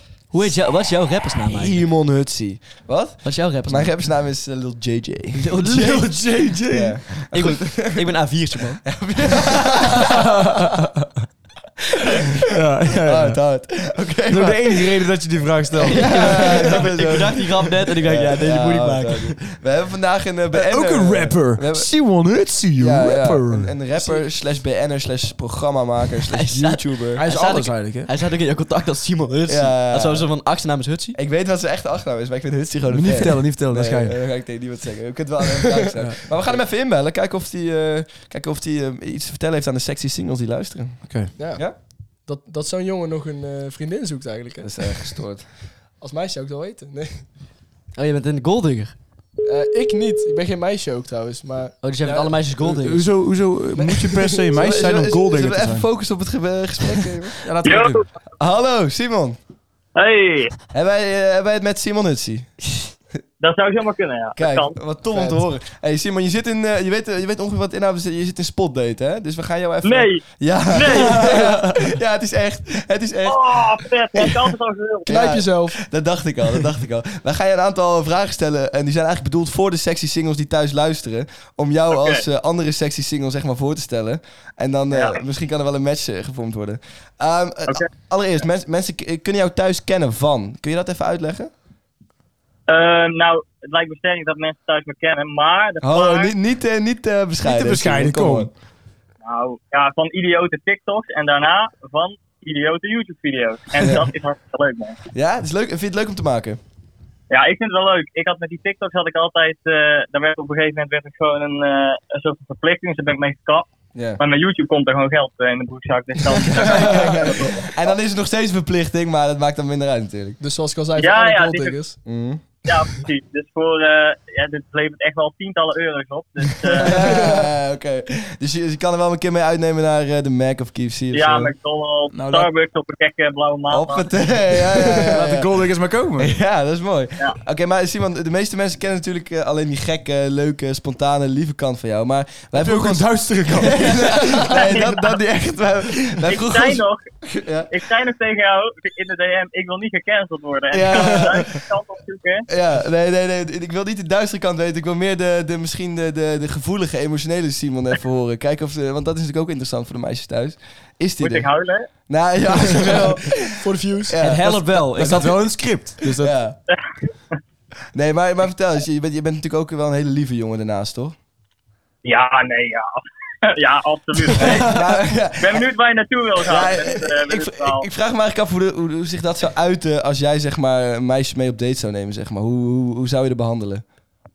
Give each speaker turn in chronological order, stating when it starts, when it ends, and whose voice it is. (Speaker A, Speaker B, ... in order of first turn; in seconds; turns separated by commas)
Speaker A: 0.3-1.8, Speaker B: 1.4-5.7, Speaker A: 3.2-3.9, Speaker A: 5.4-6.1, Speaker C: 5.5-7.0, Speaker B: 6.7-8.1, Speaker A: 7.3-8.9, Speaker B: 8.8-10.3, Speaker C: 10.2-10.9, Speaker C: 12.4-13.4, Speaker B: 12.9-14.9, Speaker C: 14.3-16.8, Speaker A: 15.8-19.4, Speaker B: 15.8-17.4, Speaker B: 18.0-21.9, Speaker C: 20.5-23.8, Speaker B: 22.8-27.2, Speaker A: 26.3-31.2, Speaker C: 27.1-28.1, Speaker B: 29.5-30.3, Speaker B: 31.1-41.8, Speaker C: 32.9-34.2, Speaker C: 41.1-41.3, Speaker D: 41.4-45.2, Speaker B: 44.6-45.5, Speaker D: 46.0-47.2, Speaker A: 47.9-48.9, Speaker D: 49.4-52.4, Speaker A: 51.8-53.0, Speaker C: 52.6-55.9, Speaker D: 54.1-54.4, Speaker B: 54.5-57.4, Speaker C: 57.4-58.0, Speaker E: 57.6-58.0, Speaker B: 58.4-59.4, Speaker E: 59.9-60.5, Speaker B: 60.7-62.5, Speaker E: 63.4-64.8, Speaker B: 64.4-74.5, Speaker D: 65.1-65.4, Speaker E: 69.8-71.4, Speaker C: 71.1-71.7, Speaker E: 73.2-75.1, Speaker B: 75.0-91.5, Speaker D: 75.1-75.8, Speaker E: 81.9-82.2, Speaker E: 84.9-85.2, Speaker E: 92.7-96.3, Speaker B: 95.8-98.5, Speaker C: 97.4-98.5, Speaker E: 99.2-105.0, Speaker B: 105.1-106.6, Speaker E: 107.3-117.5, Speaker B: 113.9-114.2, Speaker B: 116.4-120.4, Speaker D: 120.4-122.0, Speaker E: 121.0-121.8, Speaker B: 122.0-122.4, Speaker E: 122.6-127.3, Speaker B: 126.7-131.5, Speaker D: 127.1-127.4, Speaker E: 131.1-134.1, Speaker C: 132.1-132.5, Speaker B: 133.7-135.5, Speaker C: 135.0-136.3, Speaker B: 136.2-147.7, Speaker C: 142.5-144.4, Speaker E: 144.5-145.2, Speaker E: 146.2-147.0, Speaker E: 147.7-152.5, Speaker B: 150.7-151.6, Speaker B: 152.5-161.5, Speaker E: 161.2-161.9, Speaker B: 162.1-163.4, Speaker D: 163.5-164.6, Speaker B: 164.1-164.4, Speaker A: 164.2-165.4, Speaker C: 164.7-166.4, Speaker B: 166.1-166.6, Speaker B: 167.9-171.2, Speaker E: 172.0-174.7, Speaker B: 174.3-175.7, Speaker E: 175.4-177.9, Speaker B: 176.4-183.8